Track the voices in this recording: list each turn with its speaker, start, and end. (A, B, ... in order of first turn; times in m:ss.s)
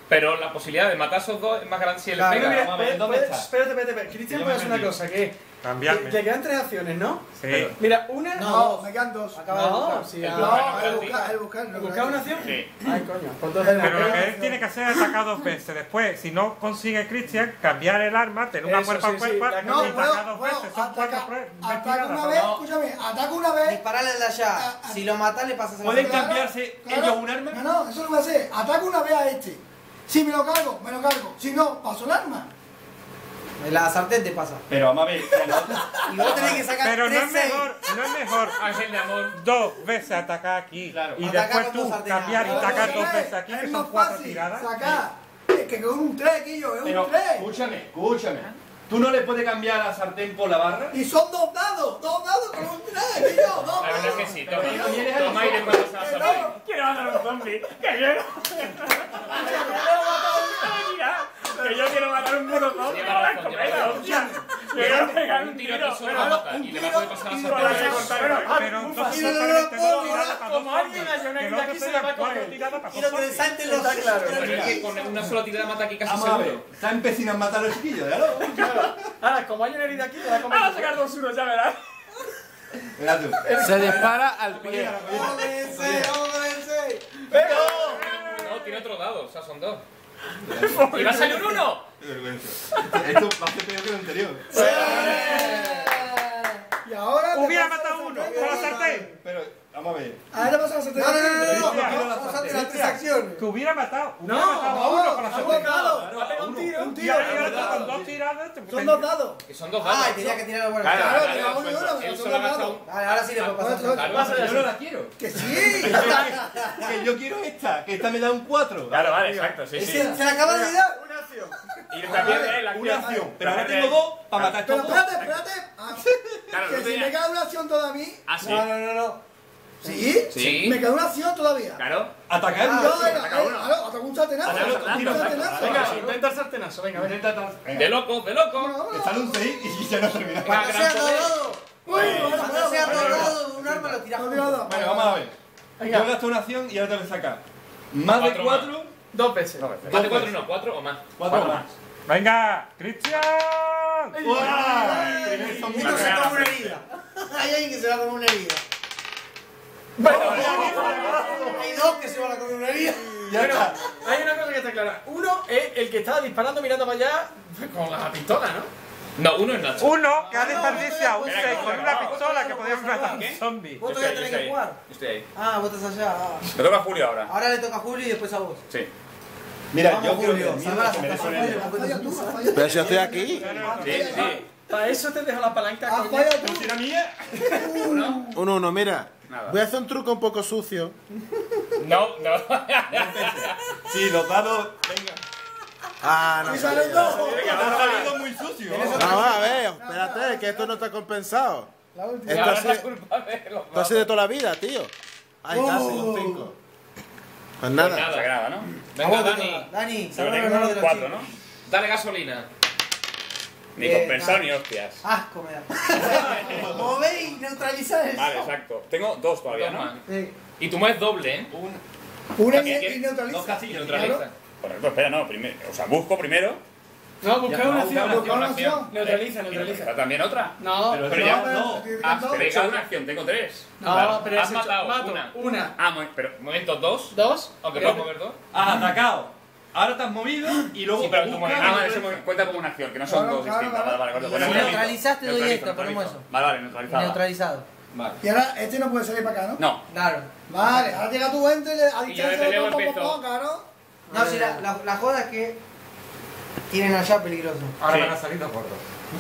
0:00.1-0:02.7 A
0:02.2-0:02.7 B
0:02.3-0:03.5 C
0:02.3-0:08.6 D
0:04.3-0:05.0 C
0:05.6-0:06.2 E
0:07.4-0:07.8 E
0:08.4-0:10.1 B
0:08.4-0:09.4 F
0:09.5-0:14.3 D
0:10.2-0:11.2 A
0:10.3-0:12.5 F
0:12.4-0:12.7 G
0:13.6-0:14.7 F
0:13.8-0:22.5 E
0:18.6-0:20.1 D
0:19.6-0:23.8 F
0:22.3-0:22.7 C
0:23.7-0:26.4 B
0:24.6-0:25.0 F
0:25.8-0:27.6 C
0:26.0-0:32.5 F
0:33.6-0:34.6 B
0:34.7-0:36.8 C
0:35.3-0:36.1 F
0:36.1-0:37.7 B
0:36.6-0:45.0 E
0:38.5-0:39.4 A
0:40.9-0:41.3 C
0:41.2-0:43.2 B
0:42.4-0:47.5 F
0:46.8-0:51.0 C
0:50.9-0:56.6 F
0:53.4-0:56.3 C
0:53.8-0:56.5 A
0:56.2-1:06.3 G
0:59.2-1:00.8 D
0:59.4-0:59.9 F
1:02.6-1:02.8 F
1:02.8-1:04.3 A
1:03.8-1:05.2 F
1:04.1-1:05.2 D
1:04.8-1:08.3 A
1:06.2-1:08.4 F
1:06.3-1:07.1 C
1:06.9-1:14.8 D
1:07.4-1:08.6 G
1:07.8-1:13.5 E
1:09.1-1:10.4 F
1:13.0-1:15.0 B
1:14.2-1:16.6 A
1:14.3-1:15.4 C
1:16.0-1:18.6 C
1:18.4-1:21.0 D
1:18.6-1:18.9 G
1:20.3-1:21.8 G
1:23.0-1:26.1 C
1:23.4-1:24.1 D
1:23.6-1:25.0 H
1:25.0-1:28.1 F
1:27.3-1:28.3 D
1:27.5-1:27.9 C
1:28.1-1:28.7 E
1:28.4-1:29.8 A
1:30.4-1:31.3 C
1:30.7-1:31.3 G
1:30.9-1:31.8 A
1:31.0-1:31.6 F
1:32.0-1:35.9 C
1:34.5-1:35.8 D
1:34.5-1:39.1 F
1:37.3-1:39.1 E
1:38.3-1:38.9 B
1:38.4-1:40.2 C
1:40.3-1:43.4 F
1:41.0-1:42.8 B
1:41.4-1:42.7 C
1:41.6-1:42.0 E
1:43.4-1:45.9 E
1:44.2-1:47.8 D
1:44.7-1:46.2 F
1:45.8-1:48.1 C
1:46.7-1:47.9 F
1:47.0-1:49.1 E
1:47.2-1:47.6 G
1:47.6-1:47.8 B
1:48.7-1:49.4 F
1:49.5-1:52.8 A
1:49.8-1:51.3 B
1:50.8-1:51.5 G
1:50.9-1:52.8 F
1:52.8-1:54.2 B
1:53.4-1:54.6 A
1:53.4-1:54.5 F
1:54.1-1:54.8 D
1:54.2-1:59.2 C
1:55.2-1:56.9 F
1:55.5-1:56.4 D
1:58.9-2:00.1 G
1:59.2-1:59.6 D
1:59.8-2:00.8 B
1:59.8-2:01.0 F
2:00.4-2:02.5 D
2:01.9-2:04.6 G
2:01.9-2:03.4 F
2:02.2-2:05.3 C
2:04.5-2:09.2 F
2:06.5-2:07.1 G
2:08.3-2:08.7 G
2:09.8-2:11.8 F
2:10.3-2:10.8 A
2:11.8-2:12.1 G
2:12.3-2:13.3 C
2:12.6-2:15.8 F
2:12.6-2:13.2 B
2:12.9-2:13.7 G
2:14.4-2:16.3 C
2:14.4-2:15.9 G
2:15.4-2:17.2 D
2:15.5-2:15.9 A
2:17.0-2:17.7 C
2:17.7-2:18.8 A
2:18.5-2:19.4 F
2:18.9-2:20.9 C
2:20.4-2:24.7 B
2:20.4-2:21.4 A
2:21.8-2:23.3 F
2:21.9-2:24.0 C
2:22.8-2:23.4 G
2:24.1-2:25.2 F
2:24.6-2:25.4 C
2:25.8-2:26.1 D
2:25.9-2:27.4 C
2:27.9-2:28.9 C
2:28.1-2:28.7 A
2:29.1-2:29.8 D
2:29.6-2:30.3 G
2:29.9-2:30.4 C
2:29.9-2:31.1 A
2:31.2-2:31.7 C
2:31.2-2:31.7 G
2:32.1-2:34.2 E
2:34.1-2:35.8 D
2:34.2-2:36.5 C
2:34.5-2:35.6 F
2:34.7-2:38.6 B
2:34.9-2:36.8 G
2:40.0-2:41.6 D
2:40.0-2:41.6 G
2:40.0-2:41.6 C
2:40.4-2:43.9 B
2:40.4-2:43.3 F
2:40.6-2:41.2 E
2:43.2-2:43.8 C
2:43.4-2:43.7 G
2:44.0-2:48.7 D
2:49.2-2:50.0 A
2:49.8-2:53.8 E
2:50.1-2:50.9 D
2:50.3-2:53.3 B
2:51.2-2:52.2 G
2:53.1-2:55.2 G
2:53.8-2:54.8 B
2:55.3-2:56.5 B
2:56.5-2:57.3 G
2:57.3-2:58.6 B
2:59.7-3:01.8 C
2:59.8-3:03.1 B
3:01.1-3:04.5 F
3:02.5-3:03.7 H
3:02.8-3:03.9 C
3:03.3-3:04.4 E
3:03.8-3:04.4 G
3:04.1-3:04.4 A
3:04.5-3:06.5 D
3:05.9-3:06.8 F
3:06.4-3:07.6 C
3:07.4-3:07.8 D
3:07.5-3:08.4 F
3:08.3-3:10.9 H
3:09.3-3:09.6 G
3:11.8-3:13.6 A
3:12.9-3:15.2 C
3:16.0-3:17.2 H
3:16.4-3:17.7 F
3:16.6-3:17.8 D
3:16.8-3:19.3 C
3:17.0-3:18.1 A
3:17.4-3:18.0 G
3:18.7-3:20.8 F
3:18.8-3:19.0 B
3:18.9-3:21.7 H
3:21.9-3:22.8 F
3:22.2-3:22.8 H
3:22.3-3:24.1 A
3:23.7-3:24.9 H
3:25.4-3:26.6 H
3:25.5-3:26.5 F
3:27.6-3:28.1 H
3:27.8-3:28.3 A
3:28.0-3:28.7 G
3:28.9-3:29.7 A
3:29.0-3:31.2 B
3:30.1-3:31.3 G
3:31.7-3:32.5 A
3:33.8-3:35.0 G
3:33.8-3:34.5 B
3:35.0-3:37.7 B
3:36.0-3:38.5 F
3:36.2-3:36.8 C
3:38.1-3:39.9 G
3:39.5-3:40.0 A
3:40.1-3:40.3 B
3:40.6-3:41.5 A
3:41.5-3:41.8 C
3:42.4-3:44.2 F
3:42.5-3:44.3 A
3:43.2-3:44.2 C
3:44.6-3:46.6 G
3:47.2-3:48.2 D
3:47.4-3:48.6 C
3:47.9-3:49.0 F
3:48.2-3:48.9 A
3:48.7-3:50.6 G
3:48.9-3:49.9 D
3:50.6-3:51.5 D
3:50.9-3:52.3 C
3:51.0-3:52.5 F
3:52.0-3:53.7 G
3:52.2-3:52.8 A
3:53.8-3:55.8 D
3:53.9-3:55.4 A
3:55.8-3:56.4 G
3:56.4-3:58.4 A
3:57.1-3:58.1 D
3:58.5-4:02.2 C
4:01.0-4:02.0 A
4:01.0-4:07.2 G
4:03.1-4:04.9 F
4:04.3-4:06.2 B
4:06.9-4:07.7 B
4:07.9-4:08.2 C
4:08.2-4:09.6 F
4:09.9-4:10.9 B
4:10.5-4:13.6 F
4:12.1-4:13.2 A
4:14.1-4:14.6 D
4:14.1-4:15.6 B
4:16.7-4:17.8 B
4:17.8-4:18.8 E
4:17.9-4:18.2 G